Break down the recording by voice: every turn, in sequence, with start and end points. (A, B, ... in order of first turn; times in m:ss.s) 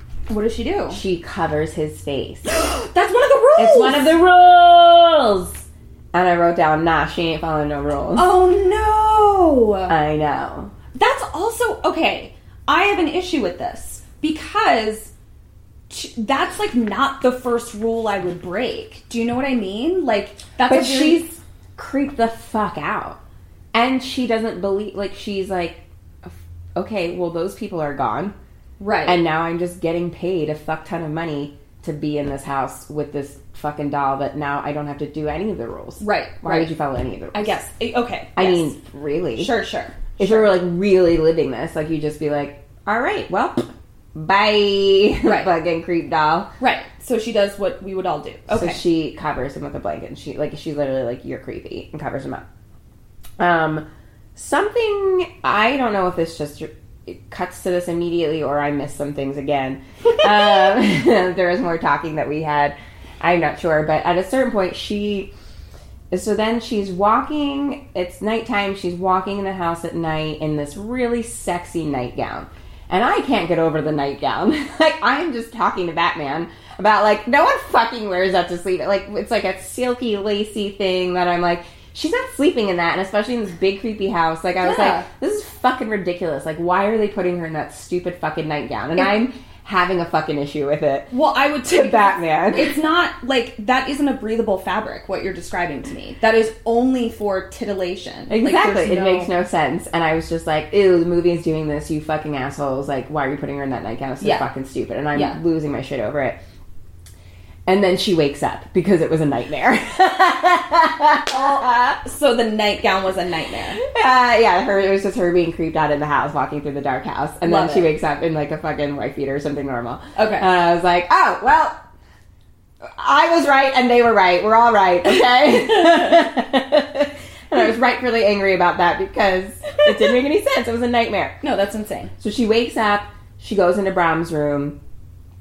0:00.3-0:01.0 A
0:00.9-0:02.6 B
0:02.5-0:04.2 A
0:03.6-0:08.3 B
0:08.1-0:09.9 A
0:09.9-0:10.7 B
0:10.9-0:15.1 A
0:15.9-0:21.2 A
0:20.7-0:23.2 B
0:23.7-0:28.3 B
0:28.8-0:29.2 A
0:29.0-0:37.6 B
0:36.0-0:36.7 A
0:37.3-0:38.7 A
0:38.4-0:39.5 B
0:39.4-0:40.6 A
0:40.2-0:46.5 B
0:45.2-0:45.5 A
0:46.6-0:48.8 A
0:48.5-0:52.4 B
0:53.4-1:05.3 B
1:06.1-1:32.8 B
1:24.6-1:25.1 A
1:31.1-1:39.3 A
1:38.3-1:46.4 B
1:44.2-1:44.5 A
1:45.1-1:45.4 A
1:47.6-1:52.0 B
1:51.3-1:53.8 A
1:53.8-2:01.8 B
1:57.4-1:57.9 A
2:00.2-2:00.5 A
2:02.8-2:11.4 B
2:11.4-2:12.1 A
2:12.2-2:14.8 B